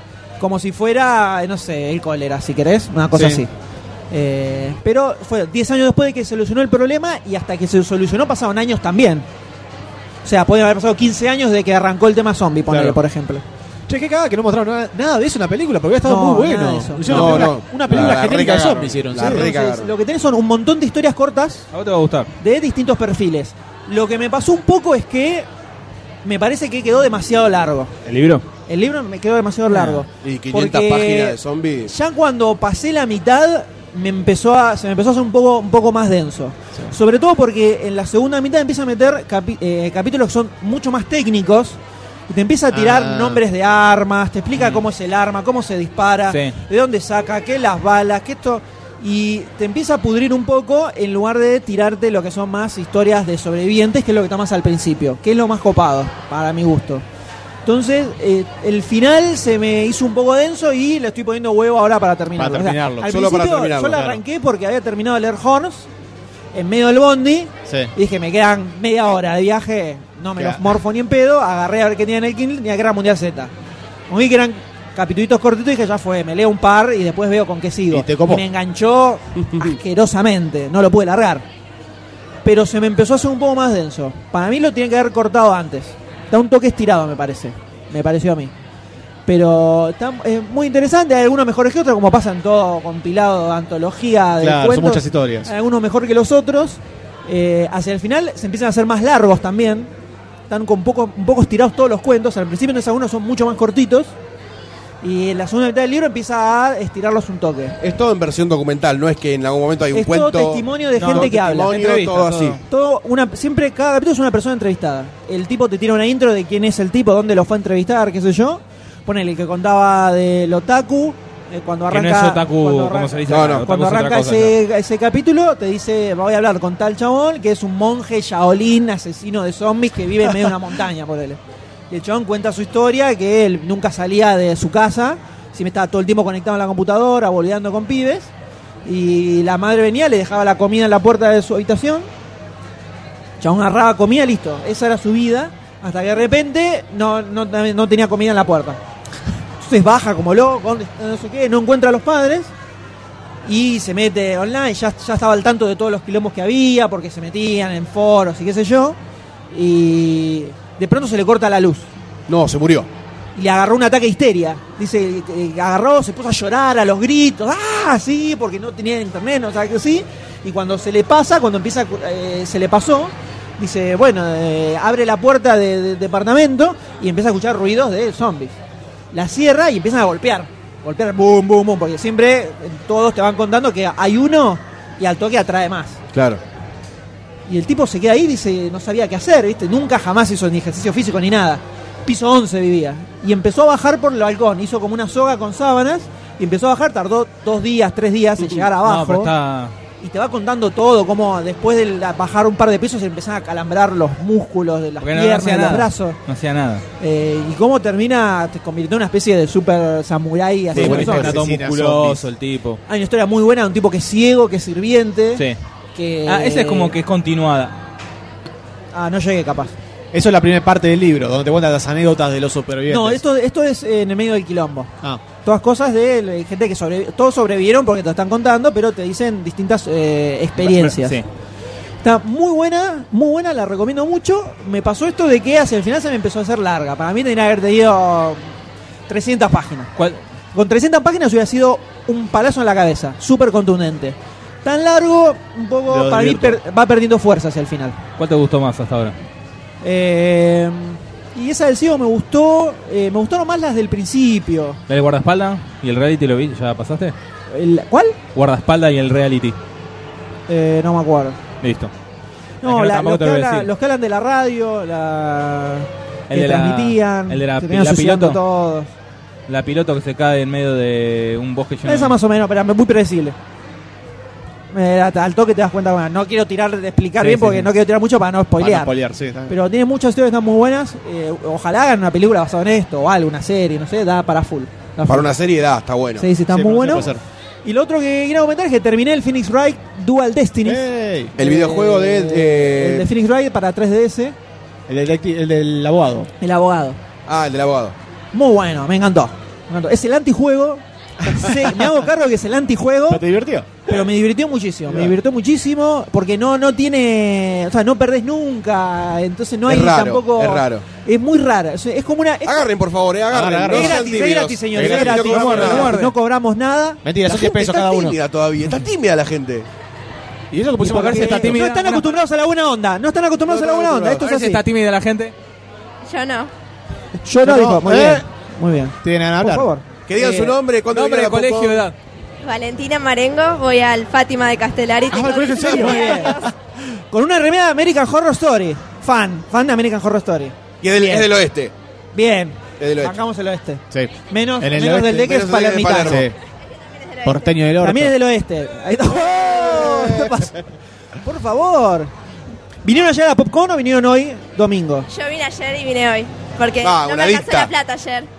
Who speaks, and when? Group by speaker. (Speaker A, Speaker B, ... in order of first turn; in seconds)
Speaker A: 0.4-3.5, 4.1-9.3, 10.2-13.4, 16.0-17.5, 19.2-21.6, 22.4-25.5, 26.2-27.9, 28.7-41.8, 42.3-57.0, 57.6-65.9, 66.5-73.5, 74.1-81.4, 82.4-88.5, 89.3-99.9, 100.5-104.1, 105.0-107.8, 109.9-111.8, 112.7-131.4, 131.9-138.3, 138.8-142.1, 143.4-148.8, 149.6-152.5, 153.5-159.0, 159.5-161.9, 163.4-178.6, 179.1-186.0, 187.5-199.3, 200.0-206.2, 207.0-211.3, 212.9-217.0, 218.9-219.7, 222.9-224.9, 225.4-231.2, 232.0-238.5, 239.1-239.9, 240.5-248.0, 249.8-254.8, 257.5-258.2, 260.5-261.4, 262.6-268.9, 271.9-273.4, 274.7-278.9, 279.5-285.3, 286.2-287.1, 287.6-290.8, 291.4-294.4, 296.4-297.0, 298.3-303.2, 303.9-312.6, 313.7-317.0, 320.8-324.6, 327.2-330.6, 335.6-336.5, 337.1-341.3, 342.1-346.3, 347.8-350.6, 351.2-352.1, 352.8-355.1
Speaker B: 3.1-3.4, 12.7-13.0, 13.9-19.5, 42.7-43.4, 62.4-63.1, 67.7-67.9, 70.4-70.6, 77.9-78.5, 94.4-95.5, 210.7-212.2, 220.1-223.2, 245.9-246.6, 277.2-277.7, 278.6-279.6, 286.5-287.2, 290.6-291.4, 294.9-296.3, 301.2-301.6, 303.1-303.7, 304.9-305.2, 313.3-314.2, 314.7-315.6, 317.0-318.2, 320.5-321.6, 327.4-328.2, 329.0-329.7, 335.1-336.5, 343.9-345.4, 346.0-346.4, 347.2-348.2, 349.5-350.4
Speaker C: 17.1-19.9, 30.2-31.9, 63.0-64.2, 107.8-112.6, 123.3-123.7, 162.3-162.9, 186.1-186.4, 285.1-286.3, 291.4-293.1, 297.3-297.9, 309.7-310.9, 312.4-316.1, 317.3-319.7, 323.5-324.2, 330.1-331.9, 340.8-341.7, 342.8-343.2, 345.1-346.3, 356.8-357.7
Speaker D: 21.7-22.3, 28.1-28.5, 46.3-46.5, 111.0-112.6, 121.9-124.5, 198.8-199.7, 205.0-206.8, 210.7-212.8, 216.3-217.8, 230.6-231.2, 240.0-240.2, 248.2-249.2, 254.9-257.1, 258.4-259.6, 261.6-261.9, 262.6-263.7, 266.3-268.4, 269.5-272.1, 315.2-316.1, 320.9-322.1, 324.2-325.3, 330.9-331.9
Speaker E: 326.1-326.5, 332.4-336.5, 346.7-347.6, 355.1-358.3